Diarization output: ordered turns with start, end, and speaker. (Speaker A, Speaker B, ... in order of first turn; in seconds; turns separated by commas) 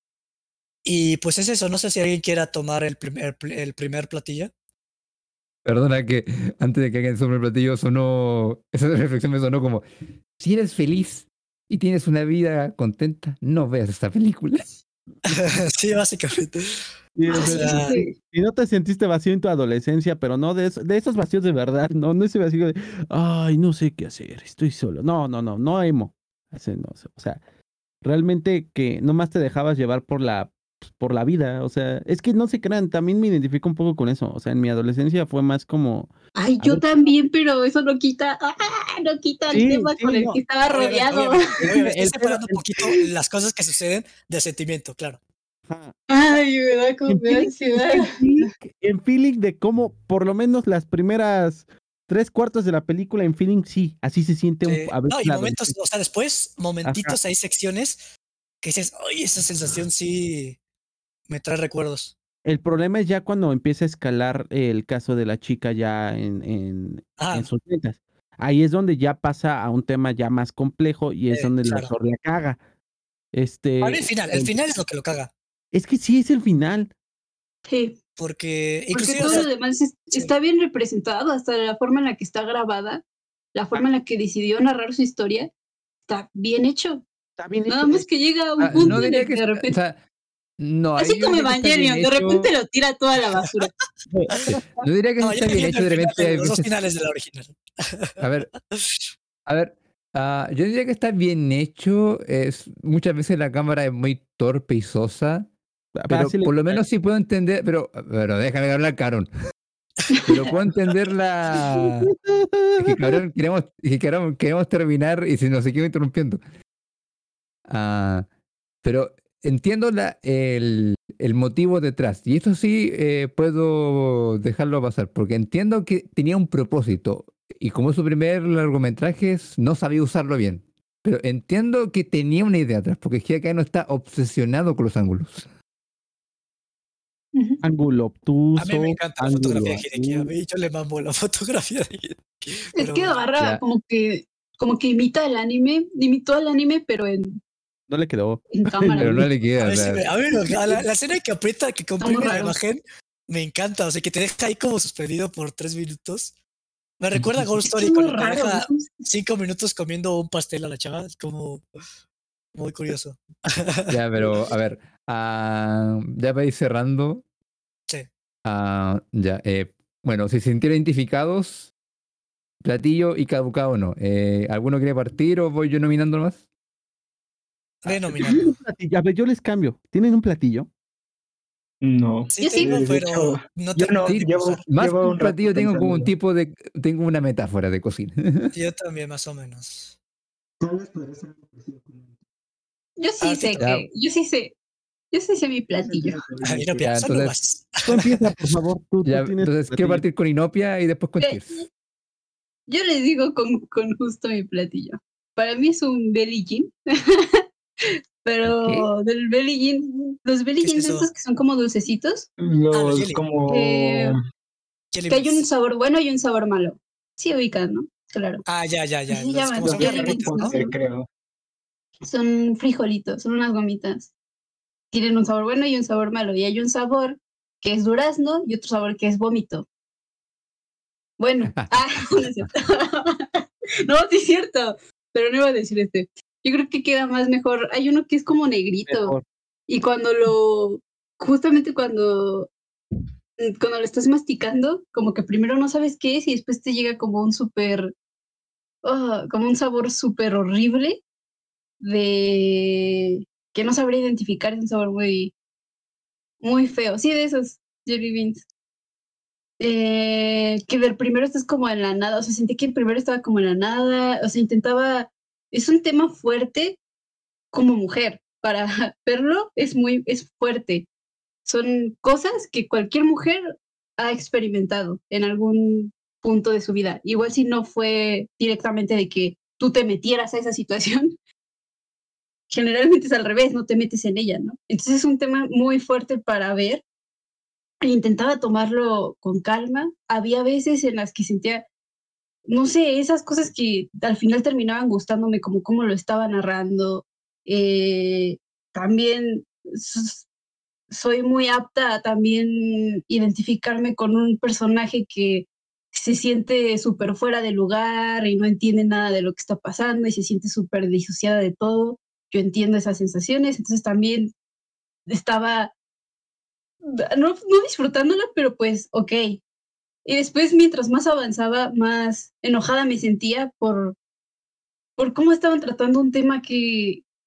Speaker A: 0.8-4.5, Speaker B: 5.6-9.8, Speaker B: 10.4-14.8, Speaker A: 15.2-18.0, Speaker C: 17.1-27.4, Speaker D: 17.3-18.1, Speaker C: 28.0-36.8, Speaker D: 36.4-41.6, Speaker C: 39.5-40.4, Speaker A: 40.7-45.2, Speaker C: 41.6-42.9, Speaker C: 45.7-46.0, Speaker D: 46.1-48.5, Speaker C: 47.1-55.7, Speaker A: 54.6-58.0, Speaker C: 56.8-57.2, Speaker A: 58.6-60.6, Speaker A: 61.3-62.1, Speaker C: 62.4-72.6, Speaker A: 67.2-67.5, Speaker A: 71.3-71.9, Speaker C: 73.3-74.5, Speaker A: 73.8-75.3, Speaker C: 75.7-76.9, Speaker D: 77.7-78.0, Speaker A: 78.2-79.5, Speaker D: 78.9-83.0, Speaker C: 79.2-79.4, Speaker D: 83.5-85.5, Speaker D: 86.1-87.0, Speaker C: 87.4-88.1, Speaker D: 87.7-89.8, Speaker B: 88.6-90.0, Speaker B: 90.6-92.5, Speaker D: 91.0-93.7, Speaker C: 94.1-94.8, Speaker B: 94.8-96.7, Speaker A: 95.2-98.1, Speaker B: 98.2-98.5, Speaker A: 98.7-99.0, Speaker B: 99.5-105.5, Speaker C: 106.0-106.6, Speaker B: 106.1-109.3, Speaker B: 110.2-112.1, Speaker C: 111.8-113.2, Speaker B: 112.8-116.4, Speaker B: 117.7-118.3, Speaker B: 118.8-135.4, Speaker D: 137.3-137.6, Speaker C: 137.6-140.3, Speaker A: 138.6-143.2, Speaker D: 142.8-147.4, Speaker C: 147.9-149.3, Speaker D: 148.5-149.3, Speaker B: 149.0-150.0, Speaker A: 149.6-156.3, Speaker D: 150.4-150.8, Speaker D: 152.0-152.6, Speaker A: 157.0-161.6, Speaker D: 157.7-158.9, Speaker A: 162.5-164.0, Speaker B: 163.9-167.2, Speaker B: 168.4-171.7, Speaker B: 172.6-176.4, Speaker A: 177.8-178.5, Speaker C: 177.9-180.7, Speaker E: 181.8-186.1, Speaker A: 182.3-184.6, Speaker D: 182.4-182.8, Speaker B: 184.1-188.5, Speaker A: 188.5-189.9, Speaker E: 190.6-192.2, Speaker D: 193.0-194.5, Speaker A: 193.2-193.7, Speaker B: 193.6-193.8, Speaker D: 195.1-196.2, Speaker E: 195.8-196.9, Speaker A: 196.4-198.3, Speaker B: 196.8-197.3, Speaker C: 197.8-200.0, Speaker B: 199.0-201.6, Speaker D: 201.2-201.7, Speaker D: 202.7-207.4, Speaker D: 208.2-212.3, Speaker B: 208.4-208.9, Speaker A: 210.6-211.1, Speaker E: 212.4-214.2, Speaker A: 212.7-213.2, Speaker D: 213.5-214.2, Speaker A: 214.9-215.5, Speaker D: 215.1-218.4, Speaker A: 218.4-220.6, Speaker D: 219.1-220.7, Speaker E: 219.6-221.1, Speaker D: 222.0-224.1, Speaker D: 224.9-229.7, Speaker D: 231.2-239.2, Speaker B: 231.5-232.2, Speaker C: 238.9-239.2, Speaker D: 239.7-242.5, Speaker D: 243.4-247.9, Speaker D: 248.8-251.0, Speaker D: 251.8-255.3, Speaker D: 256.4-258.4, Speaker D: 259.6-266.8, Speaker D: 267.5-270.9, Speaker D: 271.4-281.1, Speaker D: 282.5-286.8, Speaker D: 287.8-291.6, Speaker D: 292.5-300.2, Speaker D: 300.9-314.3, Speaker D: 315.1-315.7, Speaker D: 317.0-319.4, Speaker D: 320.0-323.9, Speaker D: 325.0-327.0